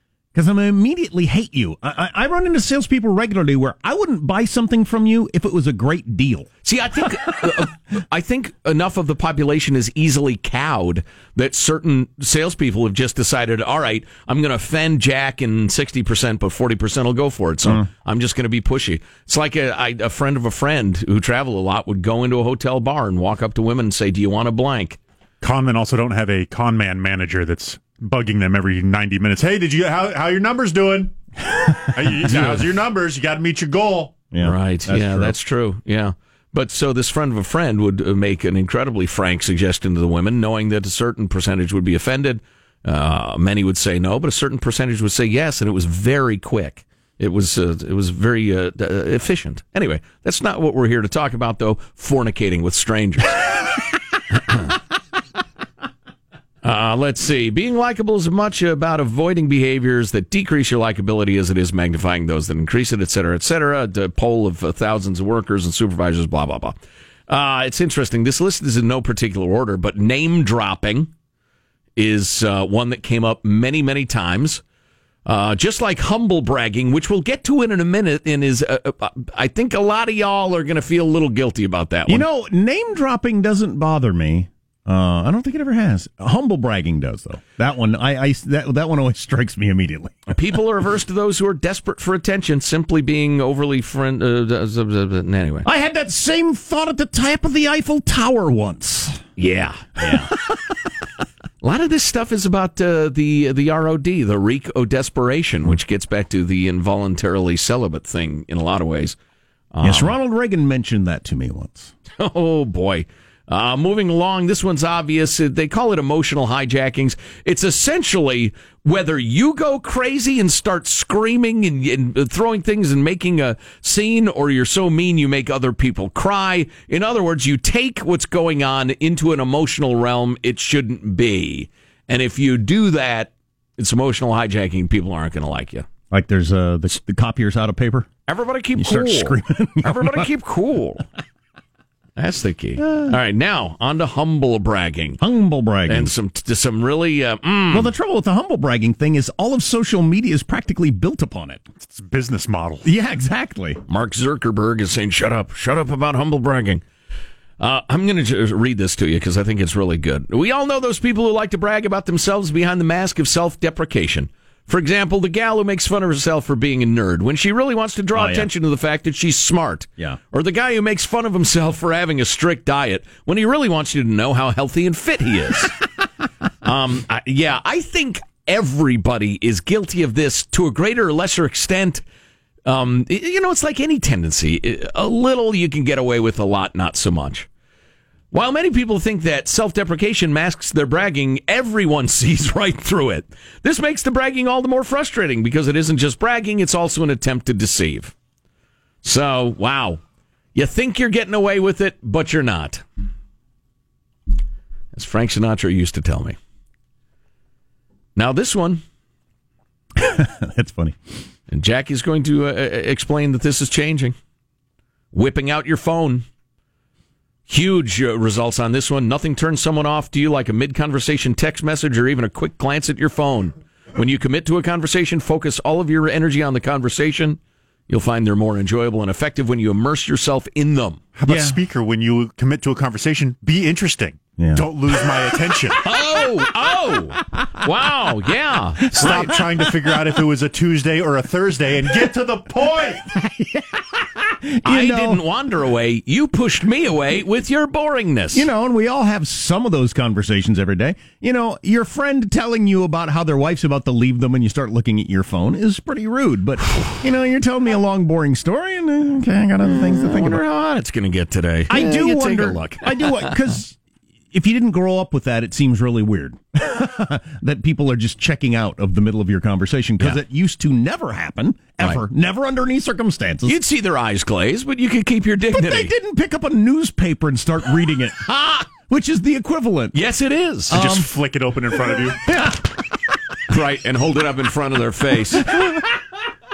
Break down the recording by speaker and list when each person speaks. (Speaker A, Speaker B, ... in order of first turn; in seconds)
Speaker A: 0.3-6.5, 31.6-32.6, 34.3-35.3, 82.1-90.3, 95.6-99.2, 100.0-100.6, 109.8-111.9, 136.1-138.1, 138.8-140.3, 142.9-143.1, 145.2-146.1, 147.7-151.6, 152.8-153.8, 168.1-168.5, 209.9-211.0, 231.3-231.6, 234.4-235.2, 237.2-237.6, 238.8-240.1, 243.0-245.2, 248.3-260.4, 261.7-263.8, 264.3-273.6, 275.5-280.0, 280.7-281.1, 281.7-282.8, 285.3-285.9
Speaker B: 6.6-25.0, 34.4-53.4, 56.6-66.8, 67.3-71.1, 72.0-74.6, 75.2-82.2, 90.3-95.7, 99.4-100.3, 101.6-109.2, 109.7-110.1, 112.2-135.9, 138.3-141.0, 142.2-145.2, 145.8-147.9, 153.9-156.8, 157.6-175.7, 176.6-182.0, 182.7-187.5, 188.3-198.1, 199.0-200.0, 200.5-202.8, 204.9-206.3, 208.2-208.8, 211.5-214.2, 215.1-216.2, 217.5-231.0, 235.8-239.3, 244.6-248.5, 259.6-263.4, 273.4-275.9, 279.9-280.7, 283.5-285.7
Speaker C: 25.4-31.1, 31.9-34.2, 151.8-152.8, 231.2-235.8, 238.9-243.1, 280.7-282.2